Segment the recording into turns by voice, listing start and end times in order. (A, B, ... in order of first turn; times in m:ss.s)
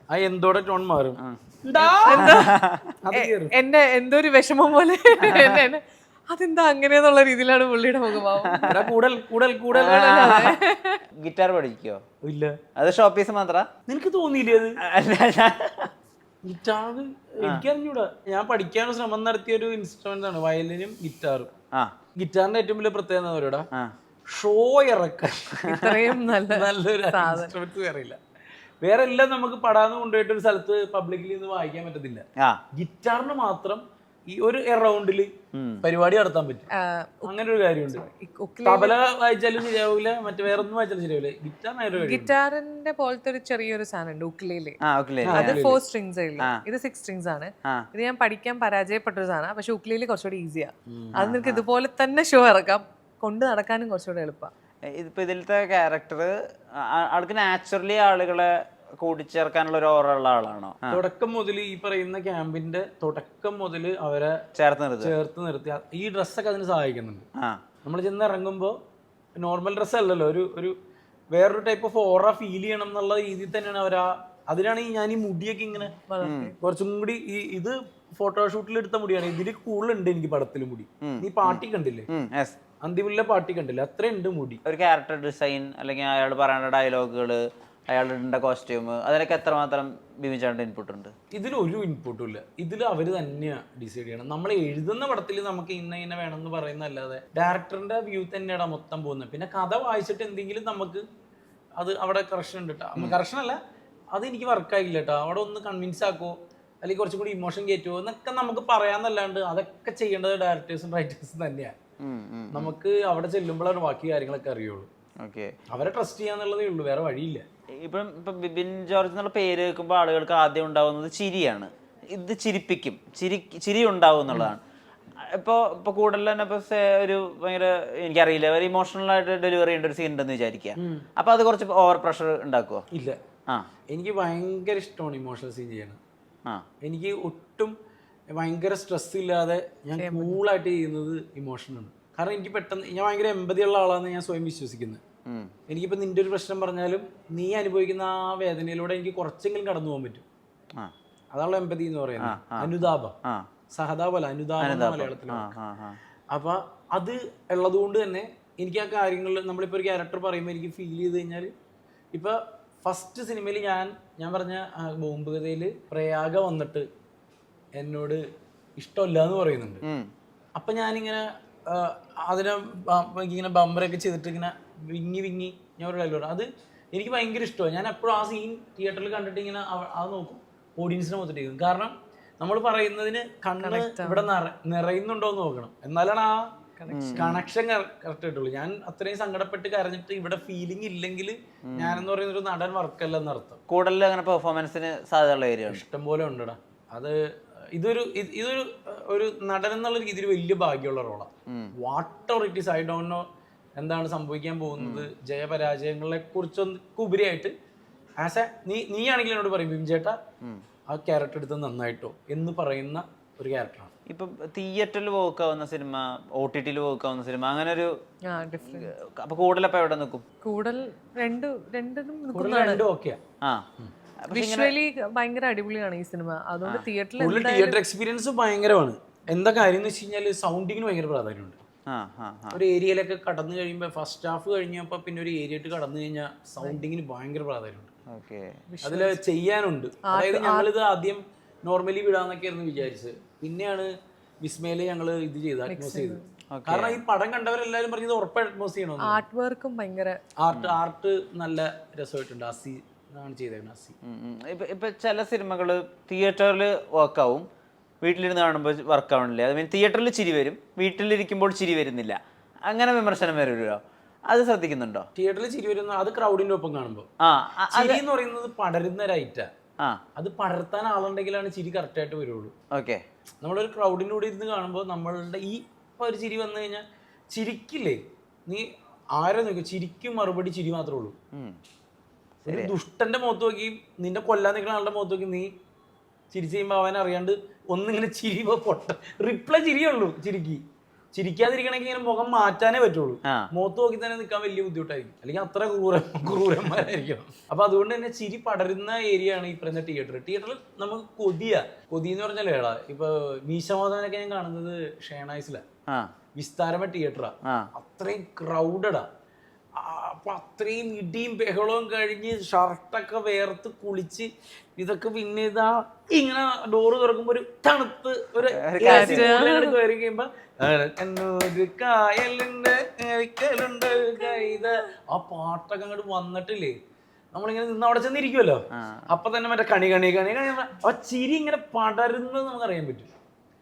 0:00.1-0:02.4 A
0:01.2-0:02.9 B
0:02.0-0:02.6 C
0:03.0-0:03.5 A
0:03.1-0:08.8 C
0:05.2-0:05.6 B
0:08.5-0:08.8 B
0:08.7-0:10.0 A
0:09.7-0:10.6 B
0:09.8-0:11.0 C
0:11.2-0:12.0 B
0:12.2-0:12.6 A
0:12.8-0:13.7 B
0:13.9-0:14.8 A
0:14.8-0:15.9 B
0:16.4-0:21.5 A
0:22.2-0:23.7 A
0:24.3-0:25.9 A
0:25.7-0:27.6 C
0:26.5-0:28.2 A
0:28.8-0:35.3 A
0:35.5-0:35.8 B
0:35.8-0:36.7 A
0:36.7-0:37.4 C
0:37.3-0:38.0 A
0:37.9-0:39.0 C
0:38.6-0:42.3 A
0:42.0-0:44.8 C
0:44.8-0:45.6 B
0:45.2-0:45.8 A
0:45.3-0:54.5 C
0:50.9-0:51.2 A
0:51.2-0:51.6 B
0:55.0-0:58.5 B
0:59.0-1:01.0 B
1:00.9-1:04.4 A
1:04.6-1:05.1 B
1:05.0-1:07.3 A
1:07.8-1:08.8 A
1:09.4-1:10.8 A
1:11.3-1:16.0 A
1:16.1-1:16.6 C
1:16.2-1:16.5 B
1:16.6-1:22.1 A
1:21.0-1:22.6 B
1:22.8-1:24.6 A
1:24.6-1:31.1 B
1:31.3-1:41.0 A
1:41.8-1:43.6 A
1:44.1-1:51.7 A
1:52.0-1:52.7 B
1:52.5-1:54.9 A
1:55.2-1:55.5 B
1:55.7-1:57.4 A
1:57.8-2:04.6 B
2:05.2-2:12.8 B
2:10.8-2:11.1 A
2:12.9-2:13.2 A
2:13.9-2:16.0 A
2:16.8-2:17.7 A
2:18.4-2:25.0 A
2:20.0-2:20.4 C
2:25.7-2:30.2 A
2:31.3-2:33.2 A
2:32.2-2:33.4 B
2:33.7-2:35.5 A
2:34.6-2:36.0 B
2:36.3-2:41.5 A
2:42.1-2:46.9 A
2:47.8-2:48.2 A
2:48.8-2:49.8 A
2:49.8-2:50.1 B
2:50.6-3:06.5 A
3:03.6-3:04.3 C
3:06.8-3:07.3 C
3:06.9-3:07.4 B
3:07.2-3:13.6 A
3:11.7-3:12.1 B
3:13.7-3:15.8 B
3:15.7-3:17.2 A
3:17.7-3:23.2 A
3:21.5-3:21.7 B
3:23.8-3:27.5 A
3:24.8-3:25.1 B
3:28.2-3:30.2 A
3:30.9-3:33.9 A
3:34.1-3:37.9 B
3:38.3-3:38.9 C
3:38.7-3:40.2 B
3:40.4-3:42.8 C
3:42.3-3:43.2 A
3:44.2-3:44.7 B
3:44.3-3:47.8 C
3:47.2-3:51.6 A
3:51.9-3:52.6 B
3:52.5-3:57.9 A
3:58.1-3:58.5 B
3:58.7-3:59.2 C
3:58.8-4:03.9 A
4:00.1-4:00.7 C
4:04.4-4:09.2 A
4:05.7-4:06.3 C
4:06.5-4:07.0 B
4:09.0-4:10.2 C
4:10.4-4:14.0 A
4:14.0-4:17.4 B
4:18.0-4:25.1 B
4:25.2-4:27.1 A
4:27.2-4:28.0 B
4:27.7-4:29.5 A
4:30.2-4:32.5 A
4:32.7-4:33.0 B
4:33.4-4:41.1 A
4:42.5-4:45.5 A
4:42.5-4:42.8 B
4:46.3-4:50.6 A
4:51.1-5:05.6 A
5:06.4-5:09.1 A
5:09.8-5:26.7 A
5:18.6-5:19.3 B
5:18.8-5:19.8 C
5:27.3-5:33.1 A
5:28.7-5:29.1 B